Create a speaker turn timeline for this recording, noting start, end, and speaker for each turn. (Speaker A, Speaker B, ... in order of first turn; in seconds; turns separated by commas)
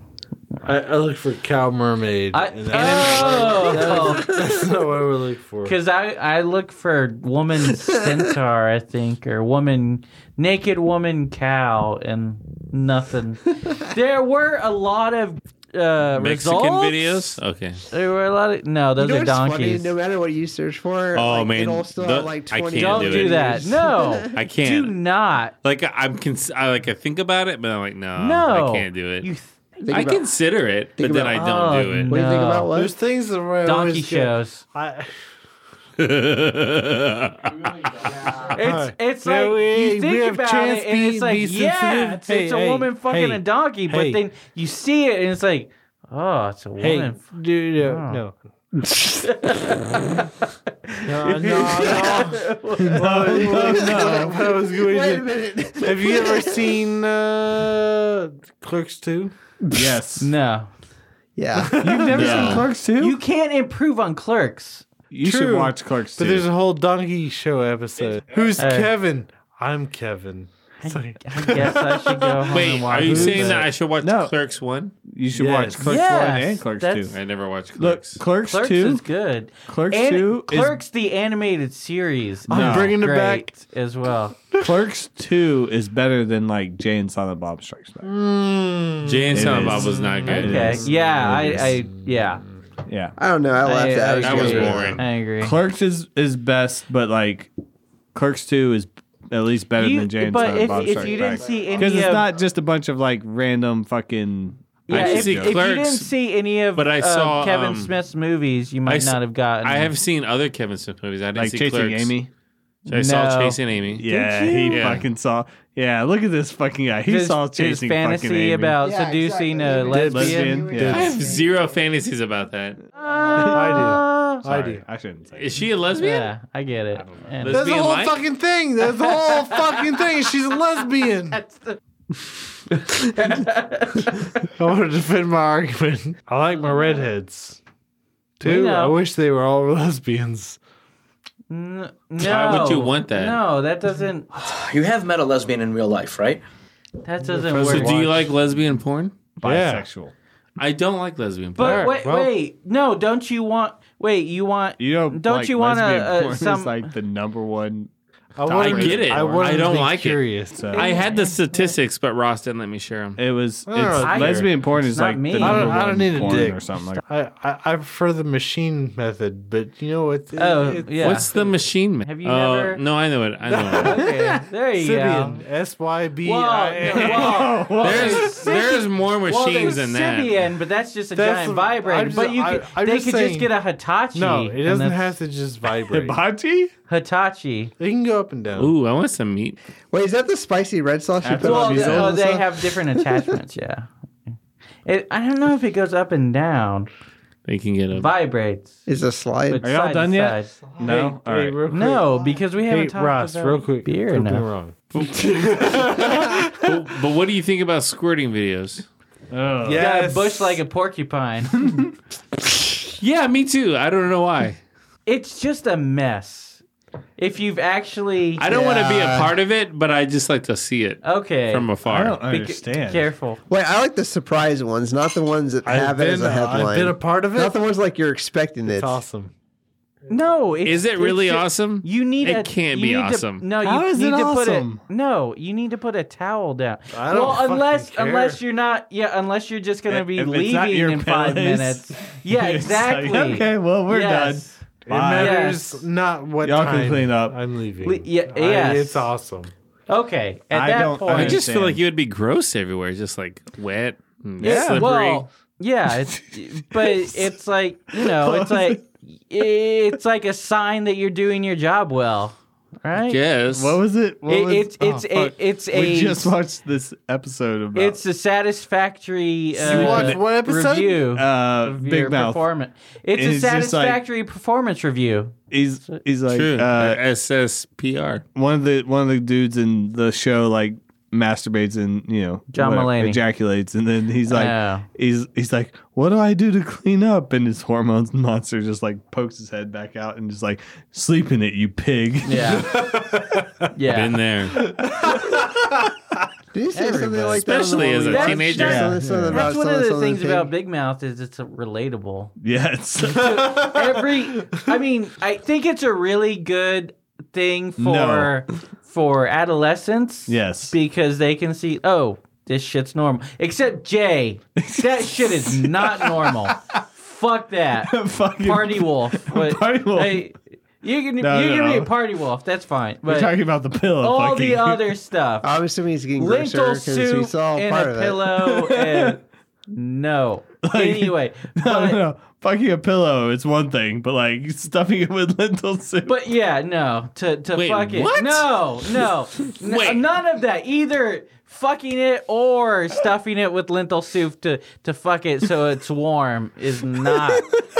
Speaker A: 0.7-5.8, Speaker B: 2.3-4.4, Speaker B: 5.7-17.4, Speaker C: 16.2-17.8, Speaker B: 17.9-19.9, Speaker D: 19.0-24.4, Speaker C: 21.1-23.6, Speaker B: 22.8-25.5, Speaker C: 24.3-25.0, Speaker C: 25.6-29.3, Speaker B: 28.2-29.5, Speaker D: 29.8-30.3, Speaker C: 29.9-32.1, Speaker D: 31.0-33.0, Speaker B: 31.4-32.7, Speaker A: 32.7-35.1, Speaker B: 33.6-34.6, Speaker C: 36.0-38.4, Speaker B: 38.5-48.2, Speaker A: 38.5-44.2, Speaker A: 46.8-48.4, Speaker D: 48.9-49.2, Speaker B: 49.3-50.2, Speaker B: 50.9-53.9, Speaker A: 51.1-55.3, Speaker E: 52.9-54.4, Speaker D: 53.8-56.8, Speaker A: 55.8-59.3, Speaker D: 59.6-60.0, Speaker E: 59.7-60.3, Speaker B: 60.2-60.7, Speaker D: 61.4-62.6, Speaker A: 61.6-62.5, Speaker E: 61.8-63.2, Speaker C: 62.2-62.6, Speaker B: 63.0-64.8, Speaker E: 65.1-66.5, Speaker A: 65.2-73.6, Speaker B: 68.6-68.9, Speaker B: 70.8-73.7, Speaker C: 72.5-74.9, Speaker E: 74.0-74.3, Speaker E: 75.1-77.2, Speaker A: 75.3-76.0, Speaker B: 75.8-77.1, Speaker C: 77.1-78.2, Speaker E: 77.8-79.0, Speaker B: 78.5-84.4, Speaker E: 79.7-80.8, Speaker E: 82.5-83.1, Speaker A: 82.5-83.5, Speaker E: 84.6-88.1, Speaker A: 88.0-92.1, Speaker C: 89.0-90.8, Speaker E: 89.3-91.7, Speaker B: 90.3-92.4, Speaker E: 92.9-93.2, Speaker D: 93.2-95.0, Speaker B: 93.6-95.6, Speaker C: 94.2-95.0, Speaker E: 95.4-97.5, Speaker E: 98.1-105.6, Speaker B: 99.8-102.3, Speaker B: 104.9-109.9, Speaker C: 104.9-106.1, Speaker C: 106.8-107.9, Speaker C: 108.9-112.1, Speaker E: 111.3-112.3, Speaker B: 112.9-115.0, Speaker C: 112.9-114.0, Speaker E: 114.0-118.8, Speaker C: 114.7-115.0, Speaker B: 117.1-120.7, Speaker D: 118.8-121.5, Speaker A: 119.9-121.1, Speaker E: 120.1-121.1, Speaker C: 120.9-122.8, Speaker B: 123.0-124.4, Speaker A: 123.4-124.8, Speaker E: 124.4-125.6, Speaker C: 125.4-126.3, Speaker B: 126.0-127.7, Speaker C: 127.4-128.2, Speaker A: 127.5-131.4, Speaker B: 129.1-129.8, Speaker B: 131.3-131.8, Speaker B: 132.8-134.5, Speaker A: 134.6-137.6, Speaker B: 136.7-137.0, Speaker A: 138.4-140.6, Speaker B: 138.4-139.0, Speaker B: 141.5-144.3, Speaker C: 142.2-143.4, Speaker F: 144.3-146.4, Speaker B: 147.0-148.1, Speaker A: 147.2-148.1, Speaker C: 147.6-149.2, Speaker E: 149.4-150.1, Speaker A: 149.4-149.9, Speaker C: 150.6-151.9, Speaker B: 151.6-156.9, Speaker A: 151.6-152.3, Speaker E: 154.8-157.9, Speaker A: 158.4-160.7, Speaker E: 158.4-159.6, Speaker C: 158.5-163.2, Speaker E: 160.6-160.9, Speaker B: 160.7-161.7, Speaker E: 163.2-167.0, Speaker A: 163.7-164.5, Speaker B: 164.0-166.5, Speaker A: 165.4-171.6, Speaker B: 170.4-171.3, Speaker C: 171.0-174.0, Speaker B: 172.0-172.8, Speaker A: 173.5-177.5, Speaker B: 173.8-175.4, Speaker B: 176.2-185.2, Speaker E: 176.9-178.4, Speaker C: 177.8-180.4, Speaker A: 181.2-183.5, Speaker A: 184.1-186.2, Speaker E: 185.9-186.7, Speaker B: 186.9-187.7, Speaker A: 187.8-188.7, Speaker C: 188.6-189.6, Speaker D: 189.9-193.1, Speaker E: 191.2-192.2, Speaker B: 191.4-193.9, Speaker B: 194.8-196.9, Speaker C: 197.5-198.1, Speaker B: 197.9-198.8, Speaker D: 198.9-199.6, Speaker B: 199.5-201.1, Speaker E: 199.6-201.6, Speaker A: 200.8-206.7, Speaker B: 201.7-204.5, Speaker C: 204.9-208.9, Speaker E: 209.3-209.8, Speaker A: 209.6-210.6, Speaker B: 209.8-211.6, Speaker E: 211.6-211.9, Speaker C: 213.0-214.6, Speaker B: 215.1-216.6, Speaker B: 217.2-218.4, Speaker C: 218.4-222.2, Speaker D: 218.4-219.3, Speaker B: 221.0-221.7, Speaker E: 221.9-223.1, Speaker B: 222.2-223.4, Speaker D: 223.5-229.0, Speaker A: 225.7-227.6, Speaker A: 228.7-229.3, Speaker B: 230.1-244.6, Speaker C: 230.6-233.4, Speaker E: 233.6-234.8, Speaker A: 236.9-238.4, Speaker E: 239.9-245.5, Speaker A: 244.8-249.5, Speaker B: 245.2-245.8, Speaker E: 246.4-247.4, Speaker B: 247.8-249.1, Speaker B: 249.9-251.4, Speaker E: 250.5-251.8, Speaker C: 251.1-255.3, Speaker B: 254.4-263.2, Speaker E: 254.4-254.9, Speaker E: 255.9-257.3, Speaker E: 257.9-258.8, Speaker C: 263.1-263.8, Speaker E: 263.5-268.0, Speaker B: 264.3-266.3, Speaker B: 267.7-275.4, Speaker A: 269.6-271.0, Speaker E: 269.6-270.4, Speaker E: 271.1-272.5, Speaker E: 273.1-274.0, Speaker E: 275.5-277.0, Speaker C: 276.3-278.2, Speaker E: 278.4-292.8, Speaker B: 282.5-283.2, Speaker B: 284.3-284.9, Speaker B: 292.2-292.7, Speaker A: 292.8-293.4, Speaker B: 293.7-294.2, Speaker C: 293.9-294.6, Speaker E: 294.8-295.8, Speaker D: 296.5-300.5, Speaker B: 296.7-302.3, Speaker C: 297.4-298.9, Speaker E: 298.6-299.5, Speaker E: 302.4-303.7, Speaker B: 303.0-323.3, Speaker E: 307.8-308.4, Speaker E: 310.3-310.8, Speaker E: 314.6-316.8, Speaker E: 317.8-320.3, Speaker E: 321.2-321.9, Speaker E: 323.0-324.9, Speaker B: 324.0-325.5, Speaker D: 325.4-328.3, Speaker B: 326.2-332.0, Speaker E: 328.4-329.2, Speaker E: 330.6-336.2, Speaker B: 336.1-347.5, Speaker C: 337.6-338.5, Speaker C: 339.6-340.0